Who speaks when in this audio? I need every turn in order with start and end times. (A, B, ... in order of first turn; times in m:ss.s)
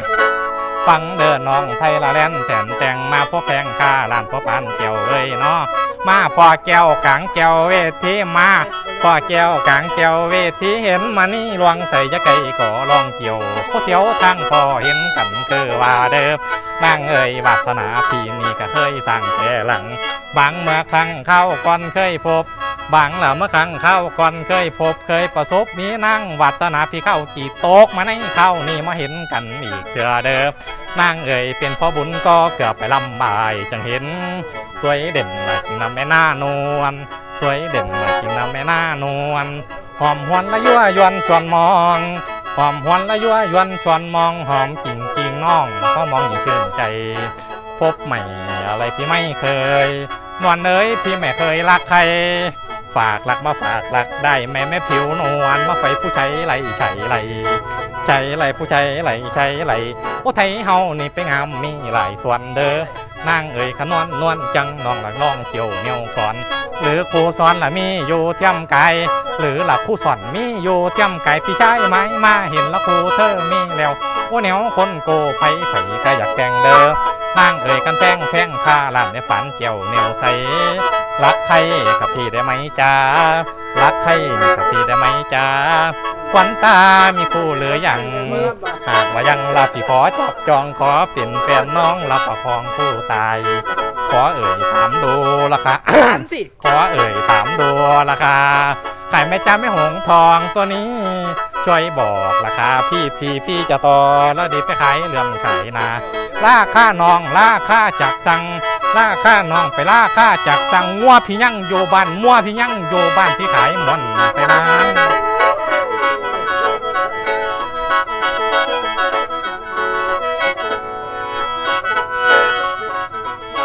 0:00.8-1:55.2 A